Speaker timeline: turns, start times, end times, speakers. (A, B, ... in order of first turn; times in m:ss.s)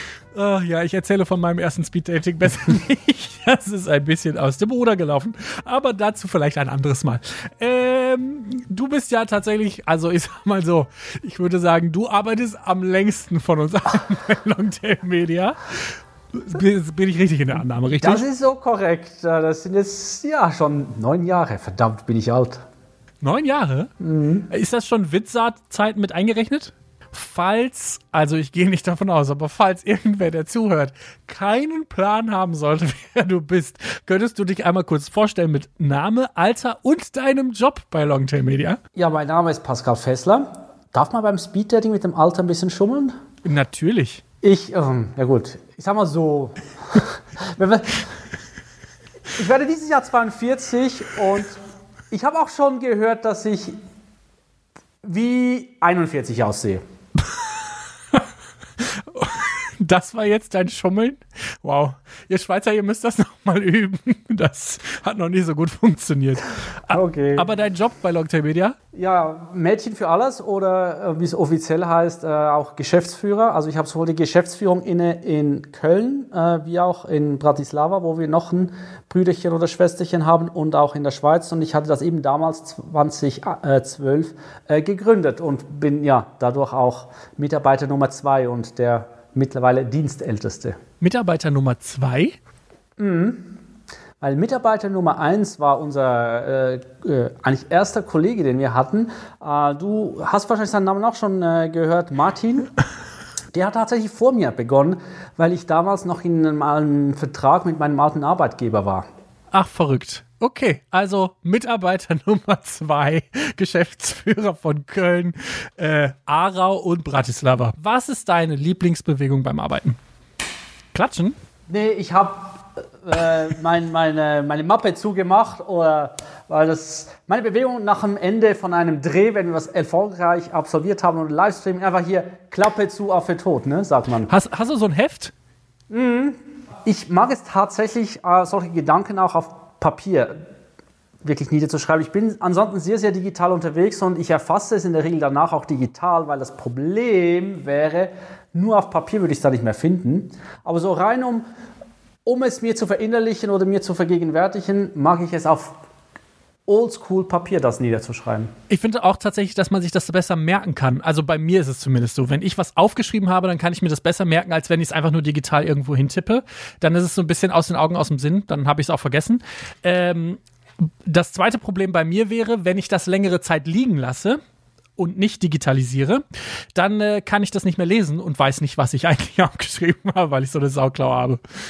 0:00.3-0:18.2 A
0:17.6-0:22.6 B
0:23.2-0:23.9 A
0:24.0-0:24.5 B
0:24.5-0:38.8 A
0:39.0-0:43.2 B
0:43.4-0:44.2 A
0:44.4-0:48.1 B
0:49.4-0:51.6 B
0:52.1-0:53.8 B
0:55.0-0:56.8 B
0:58.8-1:08.8 A
1:06.9-1:07.5 B
1:08.9-1:30.8 B
1:31.0-1:32.4 A
1:33.0-1:33.6 B
1:34.2-1:42.7 B
1:43.5-1:49.1 B
1:49.5-2:00.0 A
2:00.9-2:01.4 A
2:01.7-2:14.3 B
2:14.3-2:15.3 A
2:15.9-2:20.4 B
2:21.2-2:31.5 B
2:32.2-2:35.8 B
2:36.7-2:38.5 B
2:38.7-2:50.4 A
2:51.0-2:54.4 A
2:55.0-3:01.4 A